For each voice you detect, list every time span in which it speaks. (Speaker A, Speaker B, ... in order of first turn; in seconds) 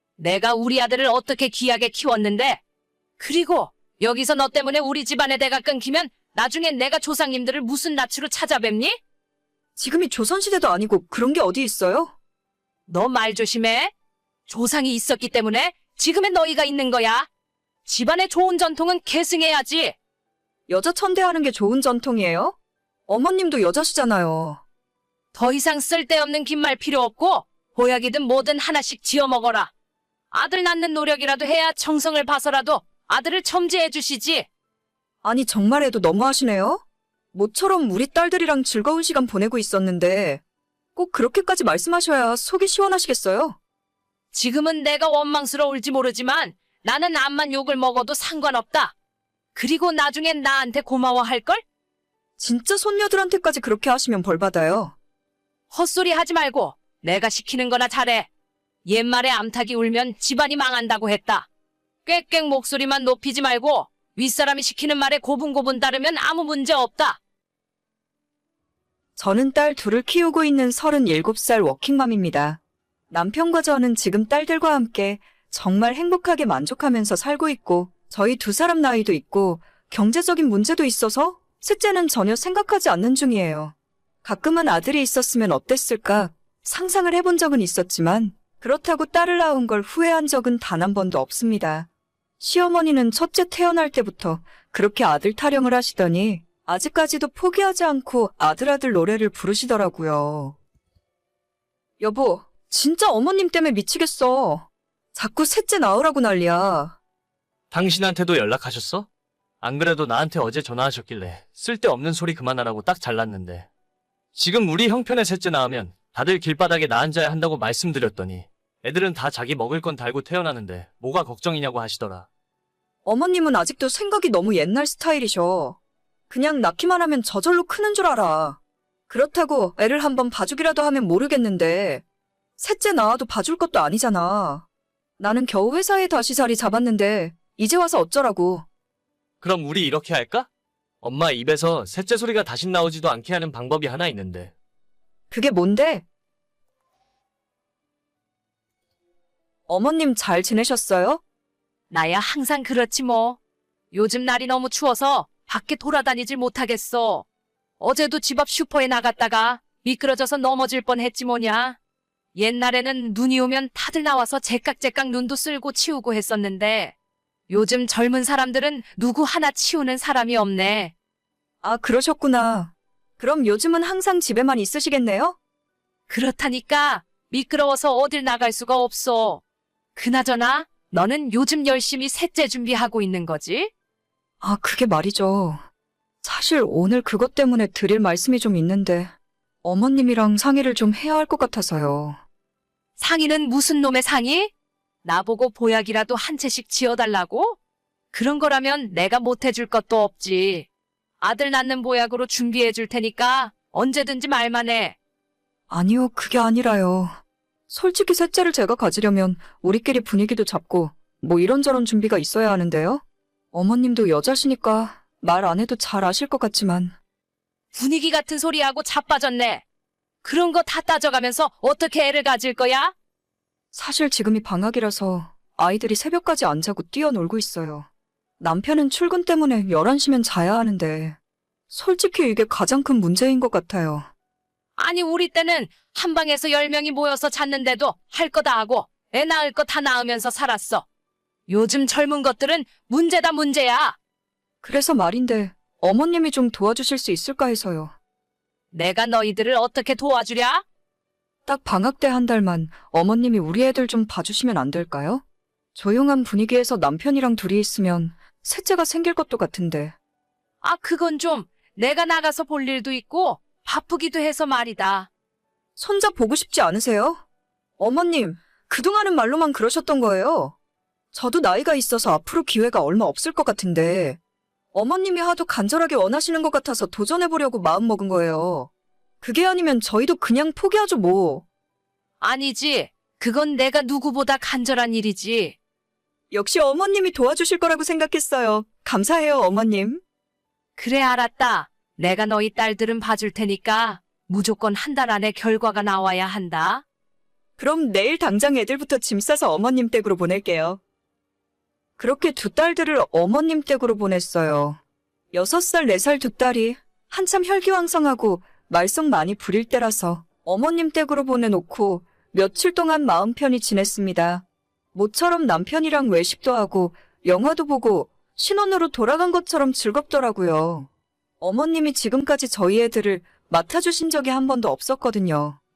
Speaker A: 0.2-2.6, 3.2-8.9, 12.9-13.9, 14.5-17.3, 17.9-19.9, 25.3-29.7, 30.3-34.5, 44.3-48.9, 49.5-51.6, 55.7-58.3, 58.9-61.5, 62.0-67.2, 151.9-153.4, 153.9-157.2, 157.8-161.8, 162.3-166.9, 167.5-170.9, 176.1-179.4, 179.9-183.7, 193.0-194.5, 195.0-197.6, 198.1-200.7, 201.2-204.9, 217.7-219.6, 220.2-222.9, 234.8-240.8, 241.5-243.9, 248.7-250.6, 260.6-265.1, 282.2-285.6, 290.8-296.8
Speaker B: 9.8-12.1, 20.7-22.6, 23.1-24.6, 35.2-36.8, 37.3-40.4, 41.0-43.6, 52.4-54.9, 69.2-72.6, 73.1-91.9, 92.4-100.6, 102.0-107.0, 123.0-125.8, 126.3-132.0, 132.6-134.7, 135.2-138.6, 145.3-146.1, 149.7-151.2, 171.6-175.4, 184.4-185.6, 186.2-189.1, 189.6-192.2, 205.7-216.9, 223.7-227.9, 228.4-231.2, 231.7-234.1, 244.6-247.9, 251.4-255.2, 255.7-259.9, 265.8-267.2, 267.8-270.5, 271.1-274.2, 274.7-278.7, 279.2-281.4, 286.3-290.0, 297.6-300.8, 302.0-304.8, 305.3-320.9, 321.4-325.6
Speaker C: 107.7-109.1, 109.6-113.7, 114.3-122.3, 139.4-140.5, 141.0-144.5